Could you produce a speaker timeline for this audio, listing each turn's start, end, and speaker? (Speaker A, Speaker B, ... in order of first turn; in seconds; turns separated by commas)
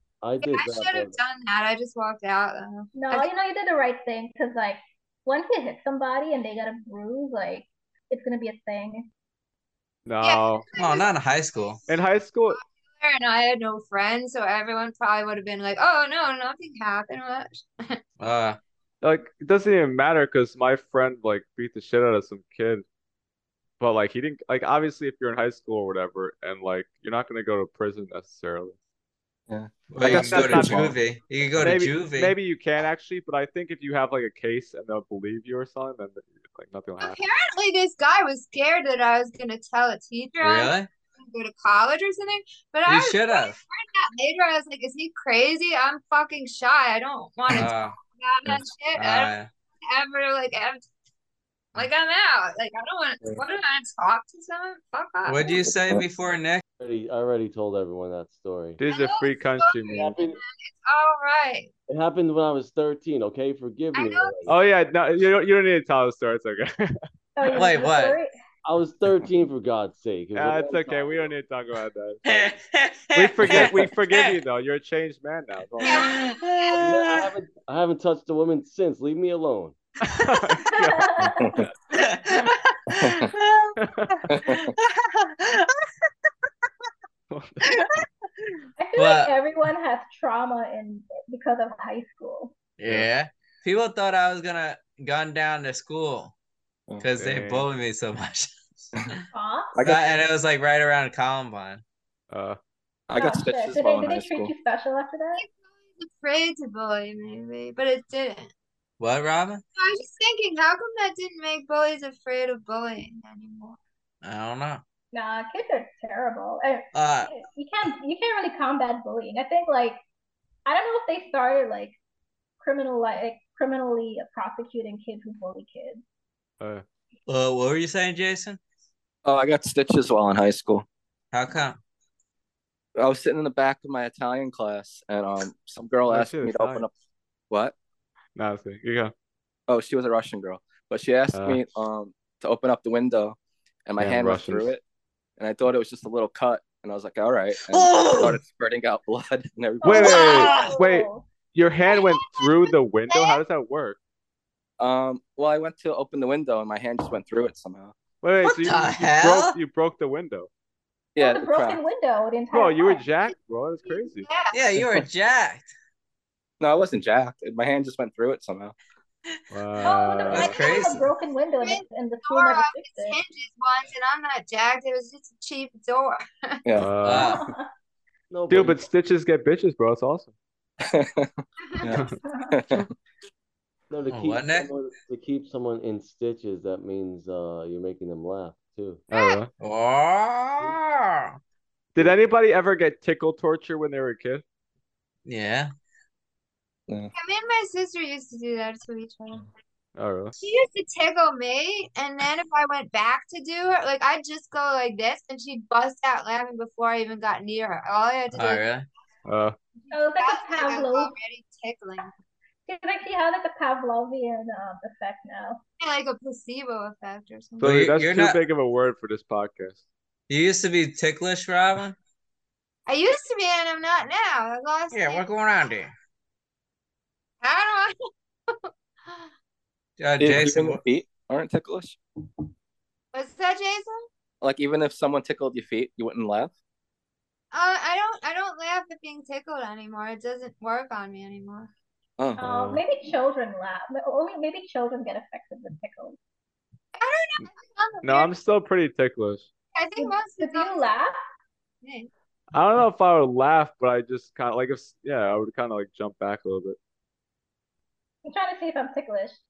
Speaker A: 0.2-1.2, Speaker B: 0.4-3.3, Speaker C: 2.9-9.1, Speaker D: 10.1-10.7, Speaker B: 10.2-11.8, Speaker E: 10.7-11.8, Speaker D: 11.9-12.6, Speaker B: 12.5-18.0, Speaker E: 18.2-18.6, Speaker D: 19.0-22.8, Speaker D: 23.8-28.7, Speaker F: 29.5-30.9, Speaker E: 29.9-32.3, Speaker D: 30.0-30.9, Speaker D: 31.6-37.2, Speaker B: 37.0-50.8, Speaker E: 40.4-40.9, Speaker E: 42.9-43.6, Speaker E: 47.5-48.0, Speaker E: 49.0-49.5, Speaker B: 51.7-55.6, Speaker E: 55.2-56.6, Speaker A: 56.8-58.8, Speaker D: 58.8-60.2, Speaker B: 58.8-61.7, Speaker A: 59.9-60.4, Speaker A: 61.9-64.5, Speaker B: 63.9-64.5, Speaker D: 64.5-67.0, Speaker C: 67.3-68.3, Speaker E: 67.5-68.2, Speaker A: 68.6-71.3, Speaker D: 70.3-72.5, Speaker E: 72.2-74.3, Speaker D: 73.1-76.1, Speaker B: 75.8-76.7, Speaker E: 75.9-77.2, Speaker A: 76.7-79.8, Speaker D: 80.1-81.7, Speaker C: 80.7-81.5, Speaker E: 81.9-83.8, Speaker D: 83.8-84.2, Speaker F: 84.3-84.6, Speaker E: 84.3-85.8, Speaker D: 87.3-87.8, Speaker C: 88.8-92.5, Speaker E: 89.0-89.3, Speaker E: 92.8-96.3, Speaker E: 97.0-98.5, Speaker D: 97.2-97.7, Speaker C: 99.3-99.8, Speaker F: 99.7-100.1, Speaker E: 99.8-101.8, Speaker D: 102.3-102.6, Speaker F: 103.1-104.5, Speaker C: 103.1-105.4, Speaker B: 105.3-108.5, Speaker E: 109.0-109.6, Speaker B: 109.8-113.8, Speaker E: 114.2-114.8, Speaker C: 115.1-120.0, Speaker E: 116.9-117.3, Speaker C: 120.7-122.0, Speaker C: 122.6-126.0, Speaker E: 127.3-128.6, Speaker F: 129.2-130.8, Speaker E: 131.3-131.8, Speaker F: 133.0-136.9, Speaker D: 136.1-136.8, Speaker D: 138.3-139.1, Speaker F: 139.7-144.8, Speaker D: 141.3-141.6, Speaker D: 144.0-144.7, Speaker F: 145.4-150.1, Speaker E: 147.6-148.4, Speaker C: 149.8-151.3, Speaker D: 149.8-154.0, Speaker E: 149.9-150.7, Speaker B: 150.1-150.6, Speaker B: 151.8-153.4, Speaker F: 154.8-157.9, Speaker D: 158.2-160.5, Speaker E: 158.4-159.6, Speaker F: 161.2-161.8, Speaker C: 161.2-163.0, Speaker D: 162.5-164.3, Speaker B: 163.9-164.6, Speaker E: 164.5-165.7, Speaker F: 166.6-168.7, Speaker D: 169.5-170.6, Speaker C: 169.8-173.2, Speaker E: 170.3-171.0, Speaker B: 170.5-170.9, Speaker B: 171.6-176.8, Speaker F: 176.6-176.9, Speaker D: 176.8-177.3, Speaker E: 176.9-177.4, Speaker C: 177.2-177.7, Speaker A: 178.3-178.8, Speaker D: 178.5-180.3, Speaker F: 180.8-182.9, Speaker B: 181.6-182.0, Speaker C: 182.2-182.5, Speaker A: 183.9-189.0, Speaker E: 184.1-184.7, Speaker B: 189.1-189.4, Speaker D: 189.1-189.5, Speaker E: 189.6-191.4, Speaker D: 191.9-194.4, Speaker E: 195.2-195.7, Speaker B: 197.1-199.4, Speaker D: 199.9-200.3, Speaker B: 200.4-208.7, Speaker E: 208.3-208.8, Speaker D: 209.2-209.5, Speaker B: 209.9-212.1, Speaker C: 209.9-211.1, Speaker C: 212.7-215.6, Speaker B: 215.8-217.8, Speaker E: 217.6-218.4, Speaker D: 217.6-219.8, Speaker E: 220.3-222.0, Speaker B: 222.9-225.2, Speaker E: 224.9-225.9, Speaker B: 227.4-227.9, Speaker B: 228.5-229.3, Speaker E: 230.0-230.8, Speaker F: 230.2-232.0, Speaker B: 233.1-234.1, Speaker F: 234.4-236.5, Speaker B: 237.5-241.7, Speaker C: 242.4-246.2, Speaker D: 242.4-242.8, Speaker B: 246.9-248.3, Speaker D: 248.0-249.5, Speaker B: 249.7-250.9, Speaker C: 250.0-251.2, Speaker B: 251.8-252.1, Speaker D: 252.5-256.8, Speaker C: 258.2-259.4